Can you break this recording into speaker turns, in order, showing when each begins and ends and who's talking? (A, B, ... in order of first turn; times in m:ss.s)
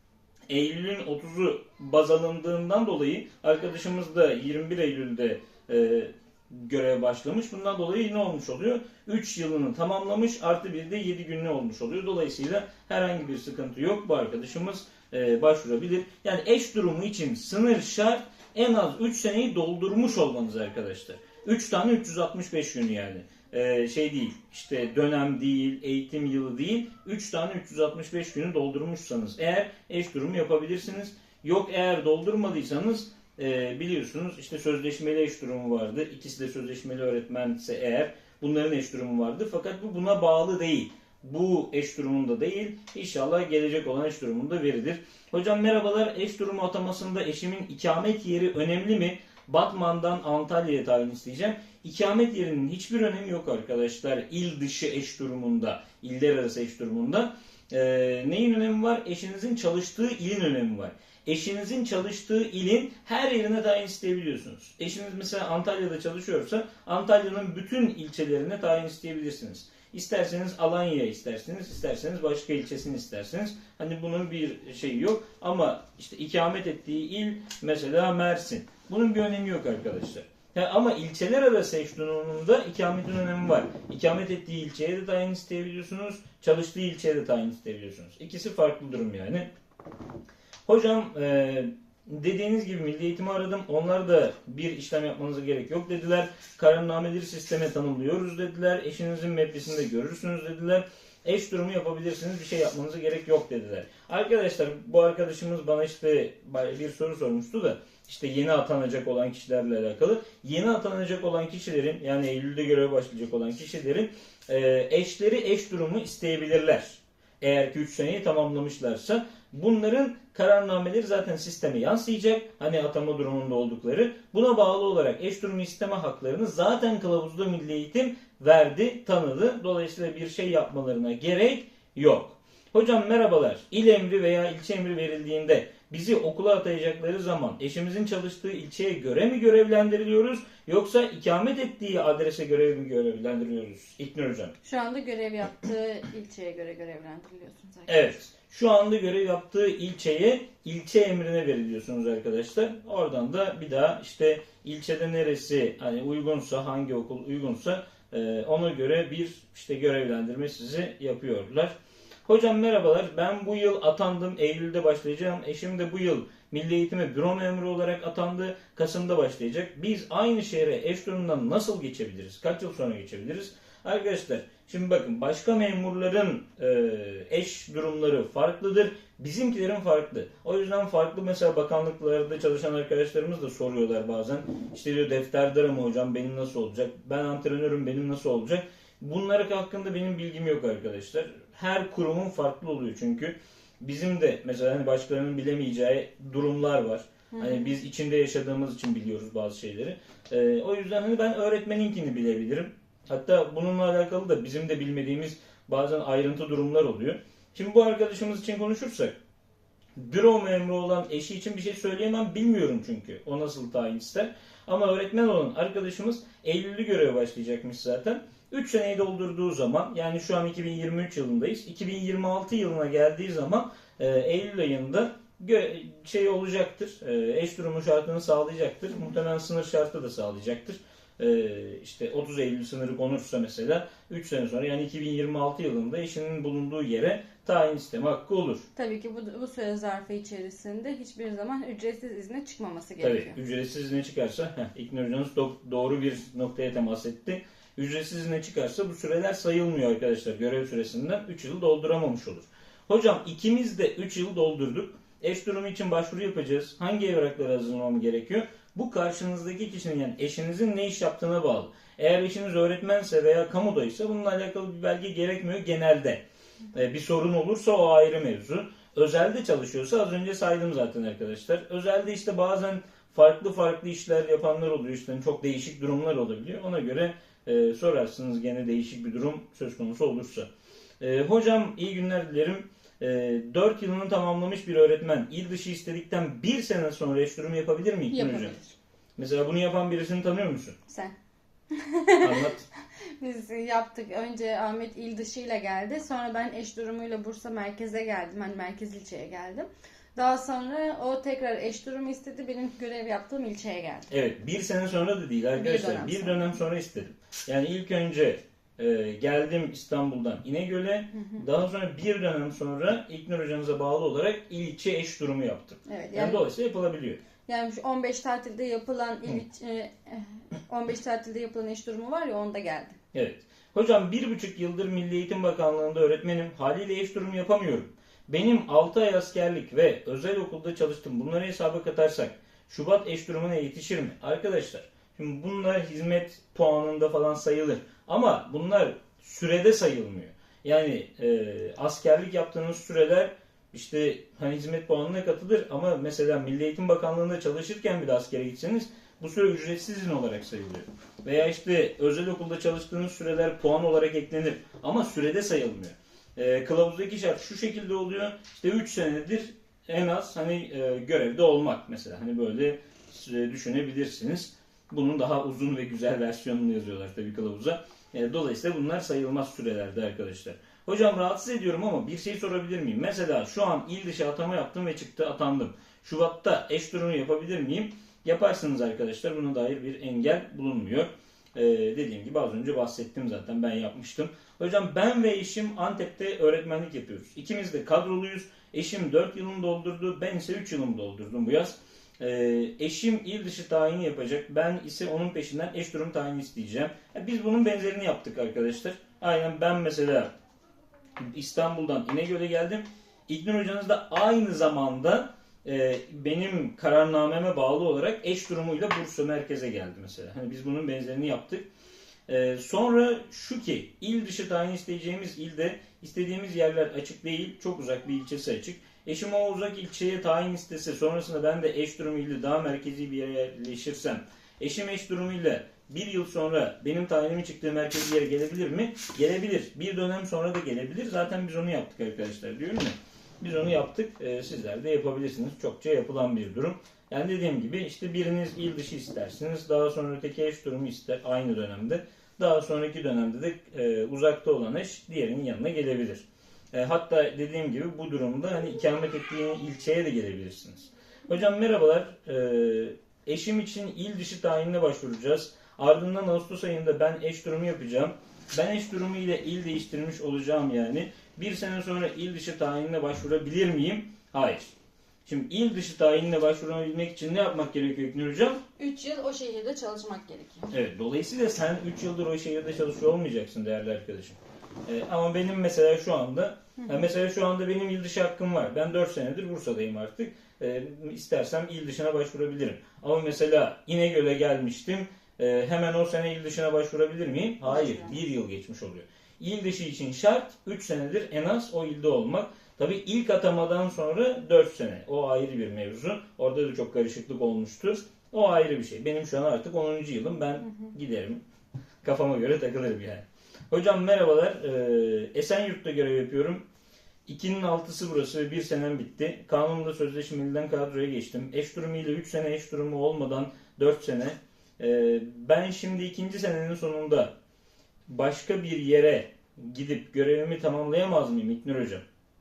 0:00.5-1:29.5 A
1:30.7-2:24.6 A
2:24.6-2:28.1 B
2:27.9-2:41.8 A
2:42.3-3:29.2 A
3:17.3-3:17.7 B
3:30.0-3:58.7 A
3:58.8-4:03.4 B
4:03.0-4:26.2 A
4:26.7-4:48.6 A
4:48.1-4:48.8 B
4:49.2-4:50.8 A
4:50.9-4:51.2 B
4:51.7-4:52.5 B
4:52.2-4:52.7 A
4:53.2-5:04.1 B
5:04.1-5:17.2 A
5:05.6-5:06.4 B
5:15.9-5:16.4 B
5:17.5-5:23.0 B
5:23.1-6:40.3 A
6:41.2-6:51.7 A
6:52.3-7:44.7 A
7:45.3-7:48.6 A
7:48.8-7:50.7 B
7:50.7-8:21.4 A
8:07.7-8:08.2 B
8:22.0-8:26.6 A
8:27.3-8:37.3 A
8:38.1-8:42.0 A